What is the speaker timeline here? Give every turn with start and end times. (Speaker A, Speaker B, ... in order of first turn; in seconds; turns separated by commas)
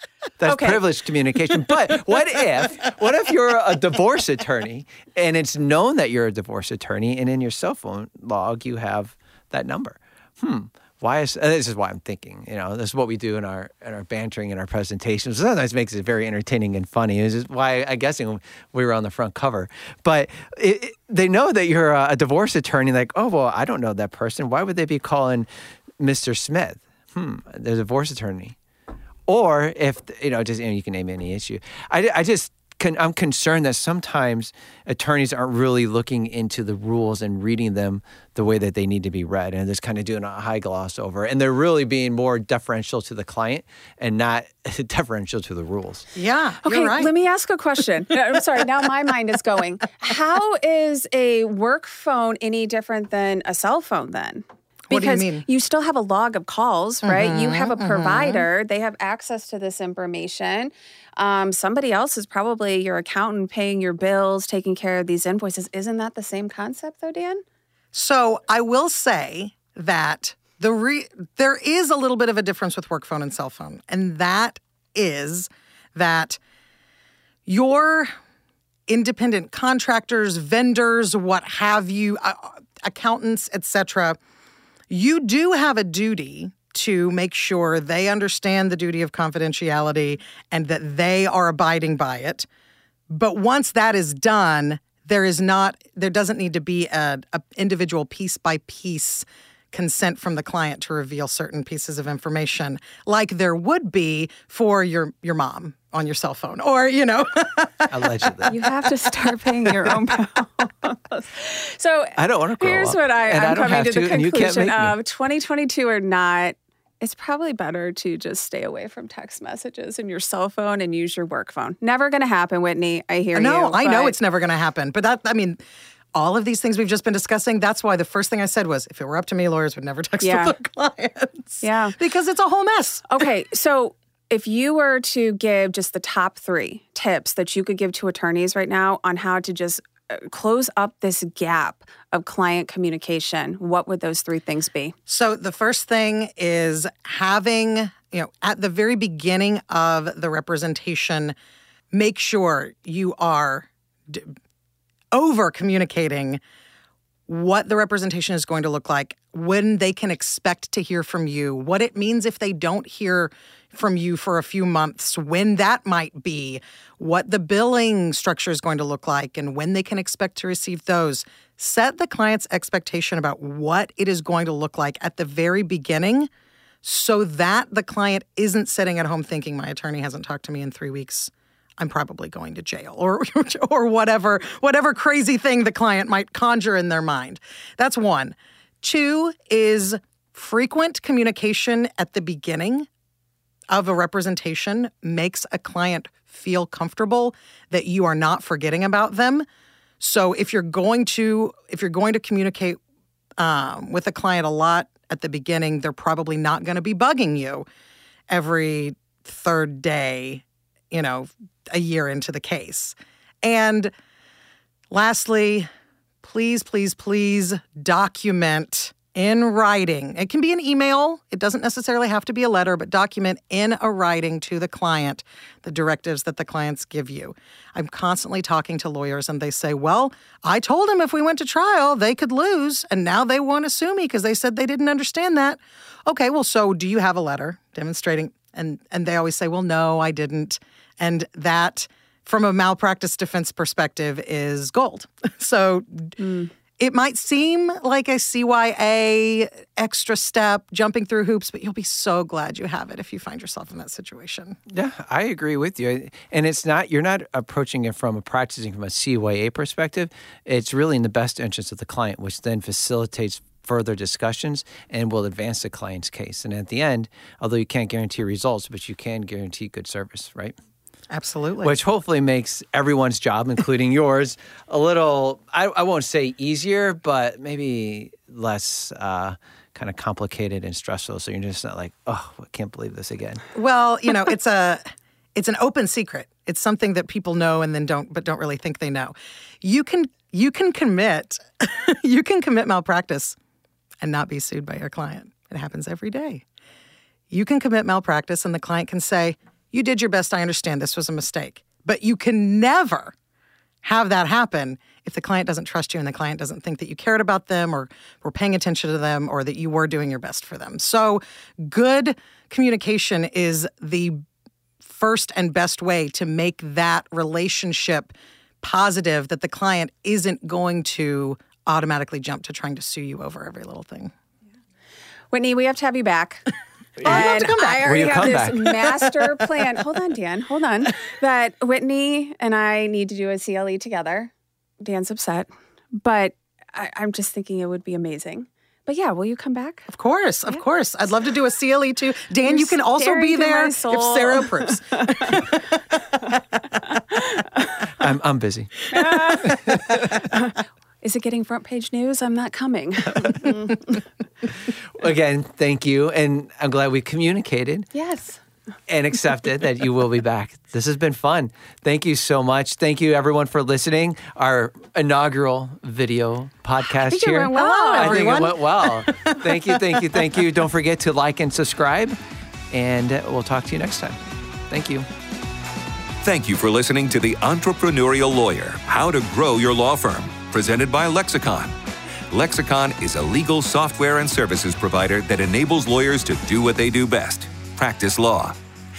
Speaker A: 0.4-25.5, Speaker B: 0.5-0.8, Speaker A: 26.0-28.6, Speaker A: 29.3-46.1, Speaker C: 46.1-47.1, Speaker B: 46.6-67.4, Speaker C: 54.9-55.5, Speaker C: 57.0-58.5, Speaker C: 67.9-76.4, Speaker C: 77.5-78.1, Speaker C: 78.9-84.2, Speaker C: 84.9-92.5, Speaker C: 93.1-108.5, Speaker A: 107.9-108.6, Speaker B: 108.5-124.2, Speaker A: 112.2-115.0, Speaker C: 123.3-125.6, Speaker C: 126.1-133.2, Speaker B: 130.2-130.6, Speaker B: 131.6-132.0, Speaker B: 133.1-144.9, Speaker C: 145.1-151.3, Speaker C: 151.9-154.3, Speaker C: 155.1-156.4, Speaker C: 157.3-176.3, Speaker C: 176.8-192.9, Speaker C: 193.7-199.5, Speaker C: 200.0-202.8, Speaker C: 203.4-207.7, Speaker C: 208.3-213.9, Speaker C: 214.9-215.7, Speaker C: 216.2-246.2, Speaker B: 246.2-246.5, Speaker C: 246.8-254.6, Speaker A: 254.7-270.6, Speaker C: 271.1-271.7, Speaker A: 271.6-283.4, Speaker C: 283.5-284.8, Speaker C: 285.4-293.4, Speaker C: 294.0-296.4, Speaker C: 297.3-303.1, Speaker C: 303.8-314.2, Speaker C: 314.9-324.1, Speaker B: 325.3-326.5, Speaker B: 327.0-339.9, Speaker C: 327.0-327.9, Speaker A: 327.0-328.9, Speaker C: 339.9-345.6, Speaker B: 342.4-345.5, Speaker B: 347.1-347.7, Speaker A: 348.0-350.2, Speaker B: 348.9-353.9, Speaker A: 354.7-357.9, Speaker B: 357.9-358.4, Speaker A: 358.9-372.2, Speaker B: 367.0-368.5, Speaker C: 367.5-370.1, Speaker A: 372.7-375.1, Speaker D: 376.2-381.7, Speaker D: 382.3-388.6